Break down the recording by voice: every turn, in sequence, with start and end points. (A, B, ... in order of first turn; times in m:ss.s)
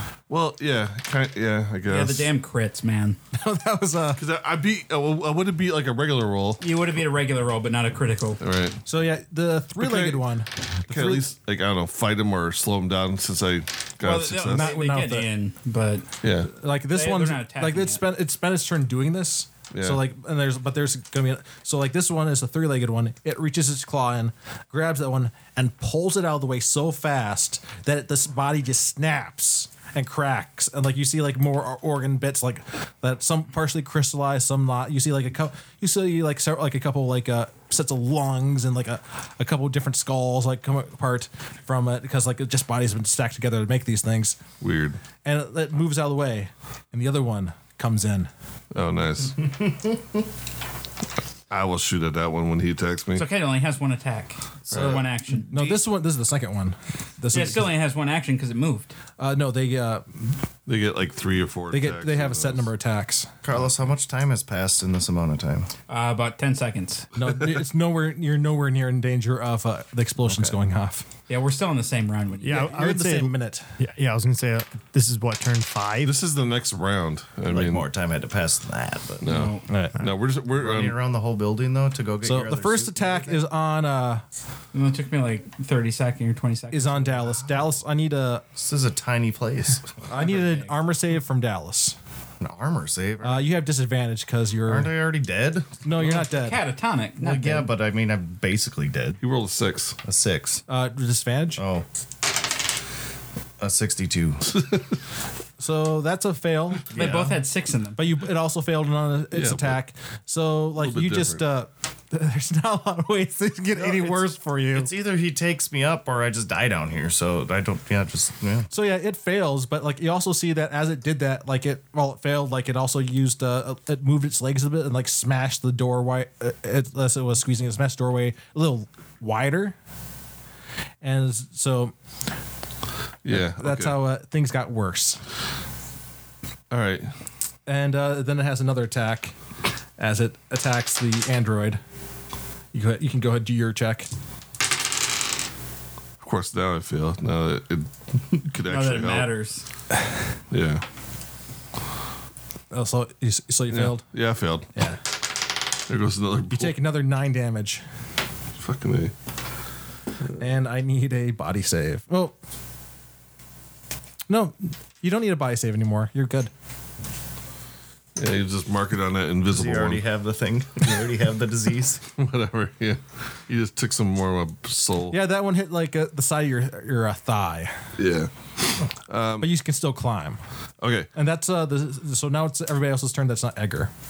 0:00.3-0:02.3 A
0:01.8-0:03.2 B
0:03.3-0:04.2 C
0:04.2-0:06.6 A
0:06.6-0:08.4 B
0:08.4-0:08.8 A
0:08.8-0:11.3 C
0:09.8-0:10.2 A
0:10.8-0:14.7 A
0:14.0-0:16.1 B
0:14.4-0:15.3 C
0:16.2-0:16.5 A
0:16.5-0:44.4 C
0:16.9-0:18.0 B
0:19.7-0:20.0 A
0:44.6-0:45.0 A
0:45.2-0:48.3 C
0:48.7-0:49.5 A
0:51.5-0:53.2 A
0:53.2-0:55.8 B
0:54.7-0:55.0 D
0:54.7-0:55.0 A
0:55.5-0:57.7 C
0:57.3-0:58.9 B
0:59.2-1:00.3 C
1:00.6-1:02.7 A
1:01.7-1:03.3 C
1:03.4-1:05.7 D
1:05.9-1:07.1 B
1:07.1-1:11.0 C
1:11.3-1:12.7 B
1:12.4-1:16.1 E
1:12.5-1:13.7 C
1:16.0-1:17.8 A
1:17.5-1:19.4 D
1:19.2-1:21.0 A
1:19.2-1:19.6 B
1:19.7-1:20.0 C
1:20.5-1:23.4 D
1:22.2-1:24.2 C
1:24.7-1:27.3 B
1:26.7-1:28.4 C
1:28.6-1:29.9 D
1:30.1-1:32.0 C
1:30.1-1:30.7 B
1:32.4-1:33.5 D
1:33.2-1:34.9 C
1:34.6-1:35.8 D
1:35.8-1:36.6 C
1:36.1-1:37.7 B
1:37.2-1:39.2 D
1:39.2-1:40.0 A
1:40.0-1:40.6 D
1:40.7-1:41.6 C
1:41.6-1:41.8 D
1:43.6-1:44.6 D
1:45.6-1:46.9 C
1:46.9-1:47.4 D
1:46.9-1:48.1 B
1:48.0-1:54.9 C
1:49.3-1:49.8 A
1:50.8-1:51.4 A
1:53.8-1:58.7 D
1:58.7-2:09.8 C
2:11.0-2:11.9 C
2:13.2-2:14.0 A
2:13.3-2:15.2 C
2:16.7-2:17.1 A
2:17.6-2:19.4 C
2:20.0-2:21.8 C
2:22.7-2:24.1 C
2:26.2-2:29.3 A
2:28.6-2:29.6 B
2:30.5-2:30.8 A
2:32.7-2:34.0 C
2:33.7-2:34.7 A
2:34.7-2:35.0 C
2:35.9-2:36.8 A
2:36.5-2:37.8 C
2:38.6-2:39.1 A
2:40.4-2:42.3 C
2:44.3-2:46.5 C
2:48.2-2:50.0 A
2:49.5-2:52.0 D
2:52.2-2:55.2 A
2:55.1-2:57.8 C
2:58.0-2:58.3 A
2:59.1-2:59.5 A
2:59.4-3:00.4 C
3:00.8-3:01.1 A
3:01.1-3:03.9 C